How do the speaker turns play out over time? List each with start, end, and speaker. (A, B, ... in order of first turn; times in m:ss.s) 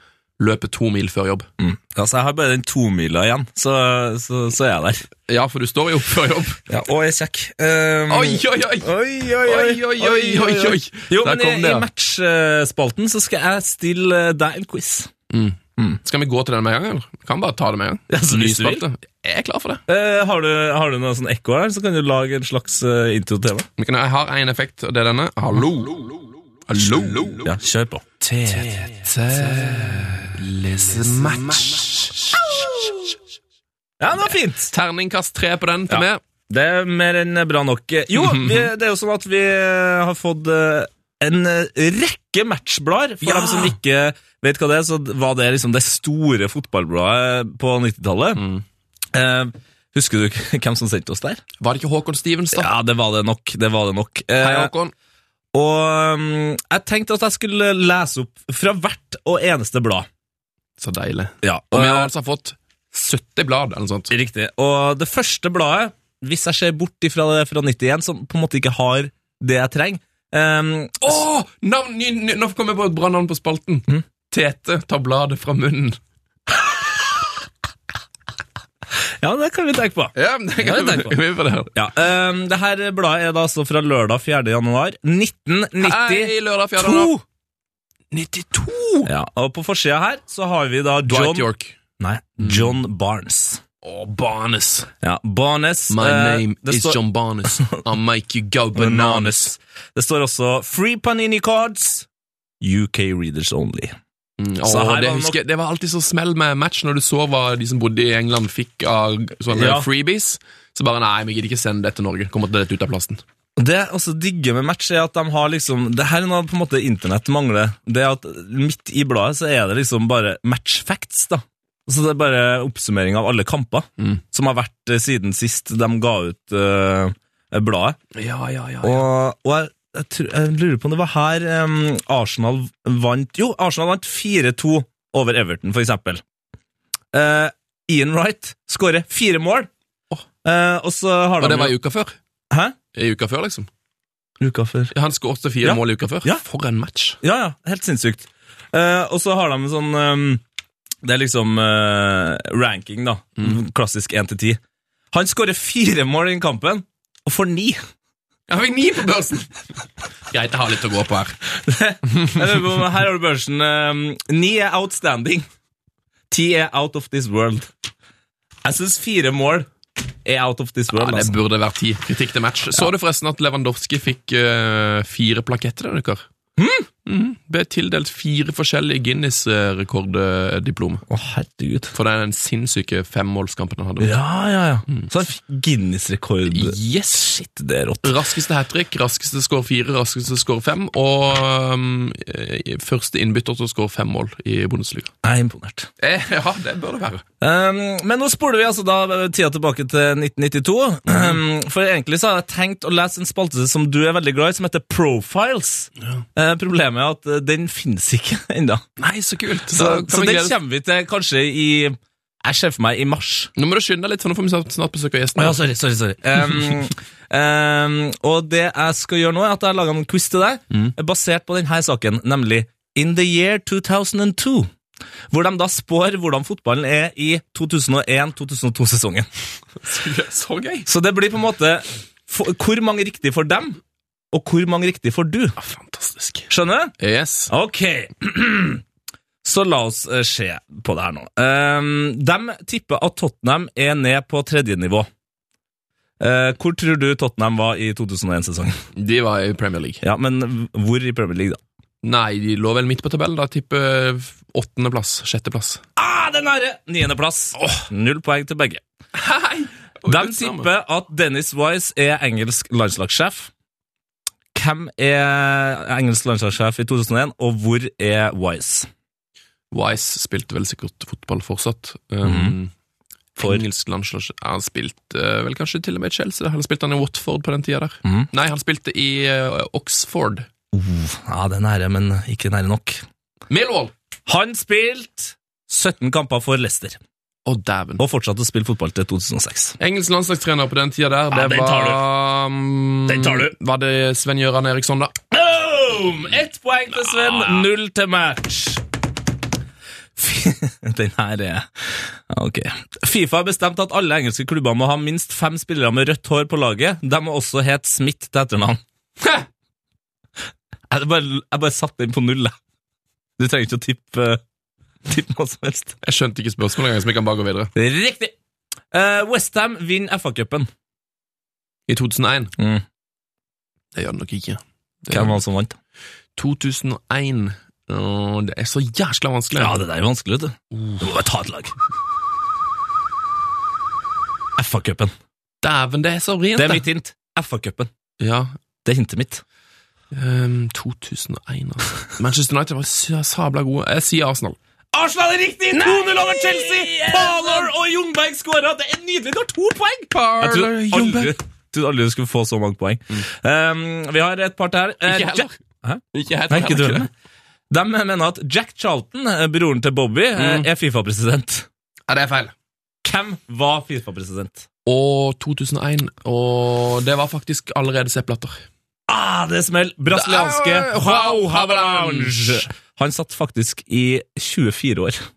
0:00.4-0:01.5 A
0:01.6-0:05.1 B
0:05.3-0:06.6 A
0:06.7-0:15.1 B
0:08.1-0:08.9 A
0:09.4-0:11.9 A
0:15.3-0:19.8 A
0:18.1-0:18.8 B
0:19.9-0:23.7 B
0:23.8-0:27.5 A
0:27.4-0:28.9 B
0:28.2-0:32.7 A
0:29.4-0:30.2 B
0:32.3-0:33.1 B
0:34.0-0:34.7 B
0:34.3-0:36.2 A
0:35.9-0:48.4 B
0:38.2-0:38.7 A
0:43.2-0:43.8 A
0:48.4-0:48.6 A
0:49.1-0:51.4 B
0:51.6-0:52.7 A
0:52.5-0:54.7 B
0:54.4-0:54.9 A
0:55.5-1:00.1 B
1:00.8-1:04.1 A
1:01.4-1:02.1 B
1:04.1-1:11.2 B
1:11.0-1:16.0 A
1:16.5-1:17.3 B
1:19.2-1:21.2 B
1:20.2-1:21.7 A
1:21.8-1:27.2 B
1:25.8-1:27.2 A
1:28.1-1:29.1 A
1:29.1-1:31.5 B
1:31.1-1:31.8 A
1:32.0-1:33.6 B
1:32.4-1:32.7 A
1:33.8-1:34.9 A
1:35.0-1:37.0 B
1:35.9-1:39.6 A
1:37.5-1:37.8 B
1:38.8-1:42.1 B
1:42.6-1:44.0 B
1:44.4-1:53.2 A
1:44.6-1:45.4 B
1:49.5-1:49.9 B
1:53.6-2:08.0 B
2:08.1-2:09.0 A
2:08.8-2:16.2 B
2:17.1-2:19.7 B
2:20.4-2:21.8 B
2:21.4-2:22.2 A
2:22.5-2:22.8 B
2:22.9-2:23.7 A
2:24.4-2:24.9 B
2:24.9-2:27.2 A
2:25.6-2:26.4 B
2:27.2-2:30.4 B
2:31.0-2:34.6 B
2:35.1-2:37.8 B
2:38.5-2:39.5 A
2:40.3-2:41.4 A
2:41.5-2:45.5 B
2:46.3-2:47.7 B
2:48.6-2:49.7 B
2:50.2-2:51.4 B
2:50.9-2:56.2 A
2:56.6-2:56.9 B
2:57.1-3:01.0 A
3:01.1-3:01.9 B
3:01.9-3:04.2 A
3:04.0-3:06.8 B
3:06.5-3:07.4 A
3:07.3-3:08.1 B
3:08.0-3:15.1 A
3:15.2-3:15.9 B
3:16.0-3:17.2 A
3:17.4-3:28.8 B
3:29.0-3:30.5 A
3:29.7-3:33.5 B
3:33.6-3:35.6 A
3:35.4-3:44.7 B
3:45.3-3:49.3 B
3:49.8-3:50.9 A
3:50.9-3:53.8 B
3:54.3-3:55.6 B
3:55.6-3:56.5 A
3:56.5-3:57.0 B
3:57.0-3:57.5 A
3:57.5-3:58.8 B
3:59.4-4:05.1 B
4:06.2-4:08.8 B
4:09.0-4:10.0 A
4:10.0-4:11.6 B
4:12.0-4:15.8 A
4:16.0-4:18.8 B
4:17.6-4:17.8 A
4:19.1-4:20.7 A
4:20.1-4:23.5 B
4:24.5-4:28.9 B
4:29.7-4:32.7 A
4:32.2-4:32.6 B
4:33.4-4:40.5 A
4:40.7-4:43.0 B
4:43.5-4:43.9 A
4:44.3-4:47.0 B
4:47.5-4:48.0 A
4:48.0-4:49.8 B
4:49.8-4:55.1 A
4:51.3-4:52.0 B
4:53.1-4:53.5 B
4:55.3-4:58.8 B
4:57.1-4:57.6 A
5:00.2-5:08.8 B
5:10.9-5:12.5 B
5:13.4-5:14.4 B
5:15.0-5:16.0 B
5:16.0-5:17.7 A
5:17.8-5:18.3 B
5:18.9-5:20.7 B
5:21.9-5:22.5 A
5:22.6-5:22.8 B
5:24.0-5:25.4 A
5:25.1-5:25.8 B
5:26.4-5:29.8 A
5:29.5-5:31.7 B
5:30.7-5:31.0 A
5:34.6-5:35.1 B
5:35.6-5:36.8 A
5:36.6-5:37.9 B
5:38.2-5:38.5 A
5:38.8-5:39.4 B
5:40.1-5:44.6 A
5:44.9-5:57.1 B
5:45.7-5:47.7 A
5:50.1-5:51.4 A
5:55.1-5:55.5 A
5:56.1-5:57.1 A
5:57.7-6:01.7 B
6:00.4-6:00.7 A
6:02.1-6:02.5 A
6:03.0-6:04.7 B
6:04.9-6:08.6 A
6:09.1-6:15.2 B
6:10.1-6:12.7 A